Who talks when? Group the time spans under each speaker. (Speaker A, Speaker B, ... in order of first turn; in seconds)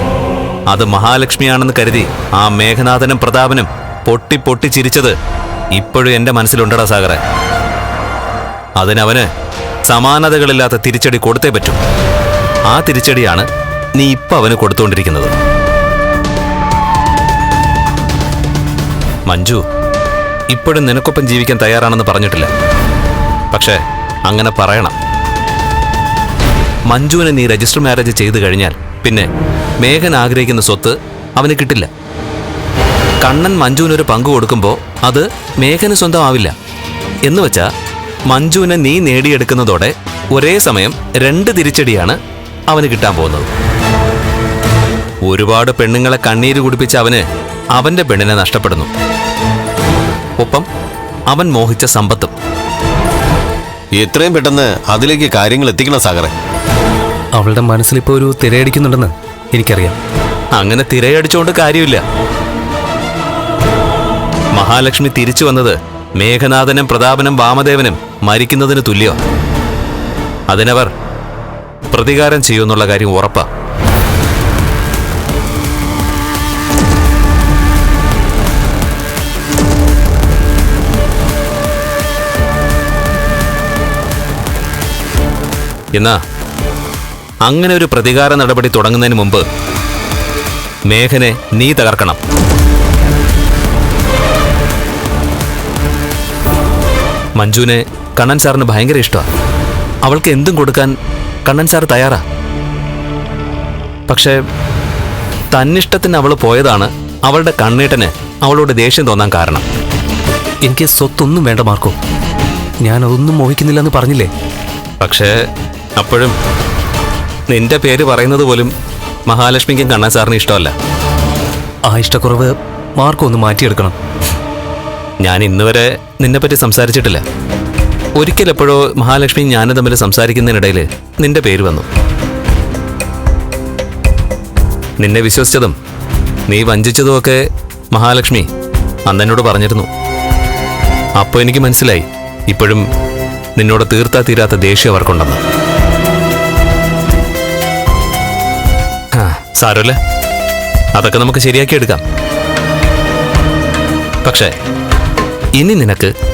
Speaker A: 0.7-5.2, 5.8-7.2, 8.8-9.3, 9.9-11.8, 12.7-15.3, 19.3-19.6, 20.5-22.5, 23.5-24.9, 26.9-29.3, 29.8-31.9, 33.2-36.5, 37.2-37.7, 38.3-42.2, 42.7-43.5, 45.3-48.9, 50.4-50.7, 51.3-52.4, 60.5-62.0, 64.5-69.2, 70.5-70.9, 71.9-73.5, 85.9-86.2, 87.5-89.5, 90.9-92.2, 97.4-99.3, 100.0-100.9, 101.5-102.2, 104.1-104.4, 105.5-109.6, 115.0-115.4, 116.0-116.4, 117.5-118.7, 119.3-120.7, 125.2-127.2, 128.2-131.9, 135.0-135.8, 136.5-138.5, 139.1-139.9, 141.2-142.8, 143.6-145.4, 149.1-150.0, 150.9-152.0, 154.2-154.5, 155.6-156.1
Speaker B: 54.0-56.3
Speaker C: 57.4-60.0, 110.7-112.0, 112.8-114.3, 121.9-124.0